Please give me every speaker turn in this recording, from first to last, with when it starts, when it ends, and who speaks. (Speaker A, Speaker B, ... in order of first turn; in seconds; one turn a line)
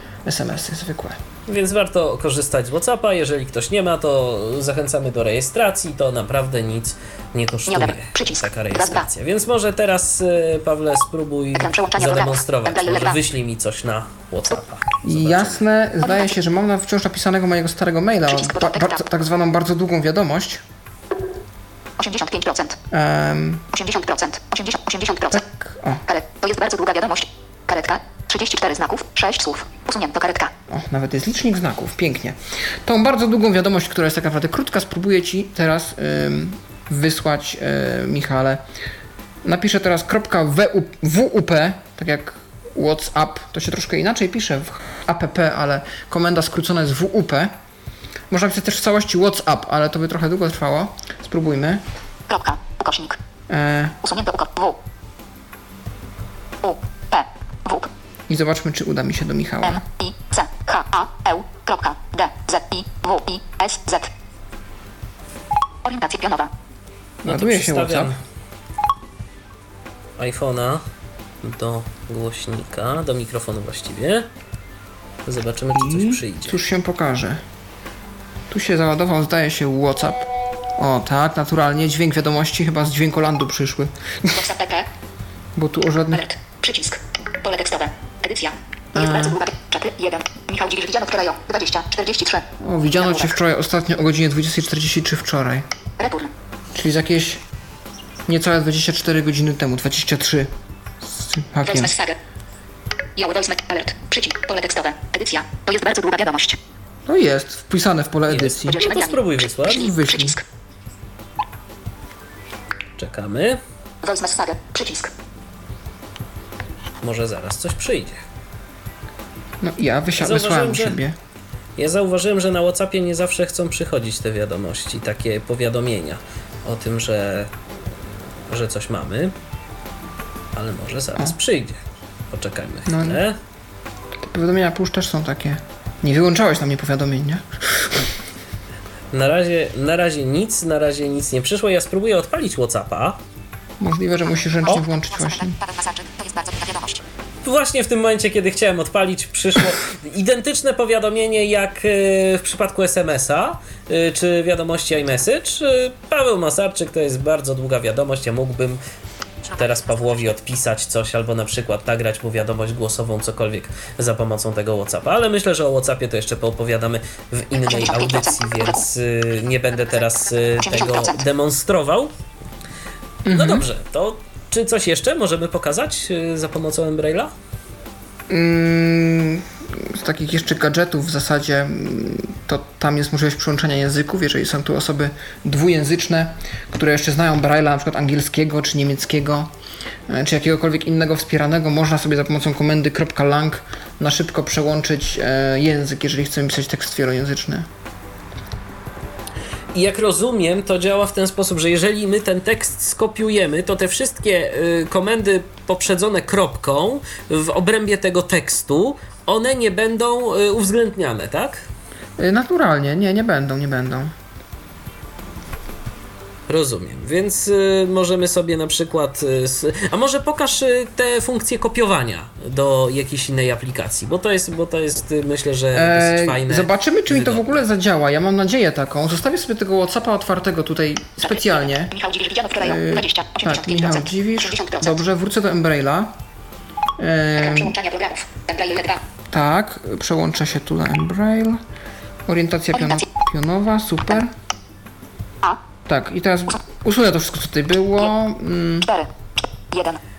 Speaker A: 0.2-1.2
Speaker B: 1.5-15.6
Speaker C: 7.7-9.1
Speaker C: 11.5-13.2
Speaker A: 15.0-20.6
Speaker C: 16.0-16.3
Speaker C: 18.3-19.0
Speaker C: 22.0-22.8
Speaker A: 22.9-23.6
Speaker C: 23.7-25.4
Speaker A: 25.3-26.0
Speaker C: 26.1-30.5
Speaker A: 30.7-38.6
Speaker A: 39.4-47.5
Speaker A: 48.3-51.8
Speaker C: 52.3-53.2
Speaker A: 53.5-54.0
Speaker C: 54.0-54.8
Speaker C: 56.6-57.9
Speaker A: 58.3-59.8
Speaker C: 59.6-64.1
Speaker C: 65.8-66.5
Speaker A: 67.2-68.2
Speaker B: 67.2-68.2
Speaker B: 70.2-70.8
Speaker B: 71.4-74.3
Speaker B: 75.2-76.6
Speaker A: 75.7-77.4
Speaker A: 78.5-84.4
Speaker C: 84.3-84.9
Speaker A: 85.5-86.2
Speaker C: 86.1-92.5
Speaker A: 88.9-89.4
Speaker A: 92.6-95.6
Speaker C: 93.0-93.3
Speaker C: 96.0-96.3
Speaker A: 96.7-97.4
Speaker A: 98.3-101.9
Speaker C: 101.6-102.2
Speaker C: 103.2-106.6
Speaker A: 107.0-108.8
Speaker B: 108.3-109.9
Speaker C: 108.7-110.4
Speaker A: 109.7-110.4
Speaker B: 113.0-113.6
Speaker C: 114.0-115.1
Speaker B: 117.0-118.2
Speaker A: 119.6-121.1
Speaker B: 120.2-121.0
Speaker B: 121.8-127.5
Speaker B: 128.5-129.3
Speaker B: 130.5-131.8
Speaker B: 132.3-133.4
Speaker A: 132.8-133.2
Speaker A: 134.2-138.1
Speaker B: 139.1-143.2
Speaker A: 143.8-145.6
Speaker C: 144.6-147.0
Speaker B: 147.4-158.8
Speaker B: 159.5-172.1
Speaker C: 167.5-168.8
Speaker C: 170.0-171.2
Speaker A: 173.2-173.7
Speaker B: 173.3-177.3
Speaker A: 178.3-189.5
Speaker A: 190.1-197.7
Speaker B: 199.7-211.6
Speaker A: 212.2-214.1
Speaker B: 216.5-227.5
Speaker A: 225.7-231.9
Speaker C: 231.2-235.0
Speaker A: 232.6-236.1
Speaker A: 237.0-237.8
Speaker C: 237.4-239.0
Speaker A: 239.3-241.6
Speaker A: 242.3-244.3
Speaker C: 242.7-243.0
Speaker A: 245.9-248.9
Speaker C: 248.8-249.1
Speaker C: 249.7-250.0